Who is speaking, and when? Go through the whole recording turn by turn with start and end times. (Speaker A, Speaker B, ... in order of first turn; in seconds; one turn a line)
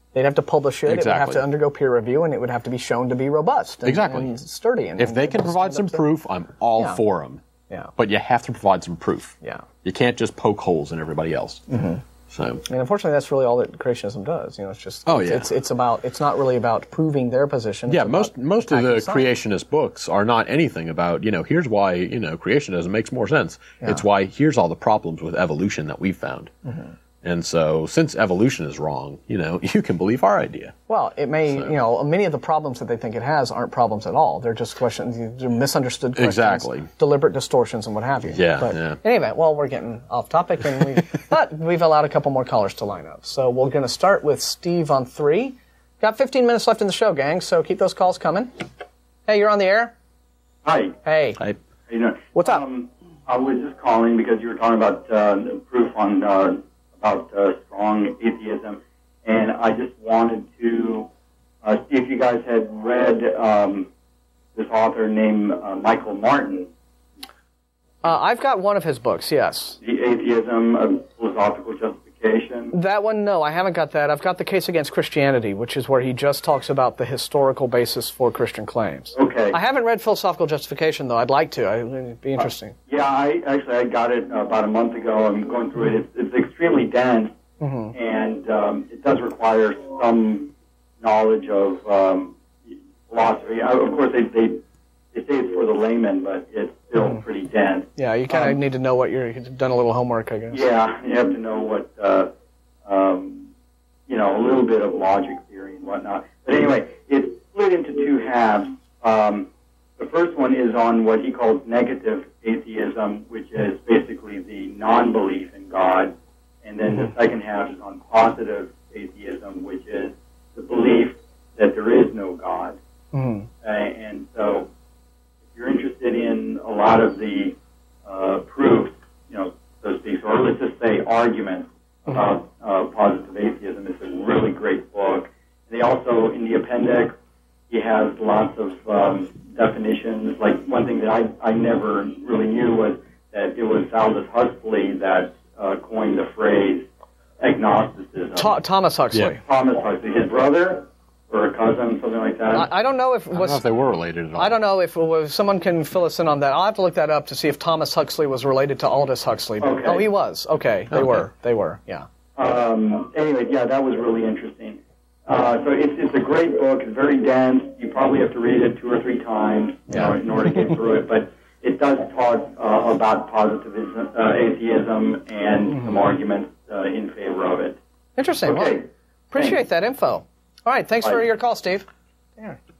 Speaker A: 0.1-6.0
Speaker B: 0.8-1.4
Speaker B: 3.8-4.3
Speaker B: 5.0-7.4
Speaker B: 8.0-11.6
Speaker A: 11.7-12.0
Speaker B: 12.3-12.6
Speaker A: 12.7-19.2
Speaker B: 15.1-15.5
Speaker B: 17.9-26.5
Speaker A: 26.6-26.9
Speaker B: 27.2-30.7
Speaker A: 30.9-48.5
Speaker B: 36.1-36.9
Speaker B: 38.3-39.0
Speaker A: 49.3-49.9
Speaker C: 50.6-51.0
Speaker A: 51.0-51.4
Speaker C: 51.9-61.1
Speaker A: 52.3-52.6
Speaker C: 61.6-63.9
Speaker C: 64.5-66.7
Speaker A: 68.0-69.8
Speaker C: 69.8-72.7
Speaker A: 72.7-82.8
Speaker C: 79.1-79.5
Speaker C: 82.9-87.3
Speaker A: 87.6-87.9
Speaker C: 87.9-94.6
Speaker C: 95.1-98.6
Speaker A: 98.0-100.6
Speaker C: 100.5-102.3
Speaker C: 102.8-103.5
Speaker C: 104.1-122.8
Speaker A: 123.1-123.5
Speaker C: 123.6-124.7
Speaker C: 125.5-137.1
Speaker C: 137.7-146.9
Speaker C: 147.4-148.6
Speaker A: 148.4-149.4
Speaker C: 149.4-152.7
Speaker A: 152.5-153.6
Speaker B: 153.3-154.6
Speaker A: 154.3-162.1
Speaker C: 159.6-160.0
Speaker B: 160.9-161.2
Speaker C: 162.3-177.8
Speaker A: 169.9-170.2
Speaker A: 178.2-181.9
Speaker C: 178.4-178.8
Speaker C: 179.3-179.6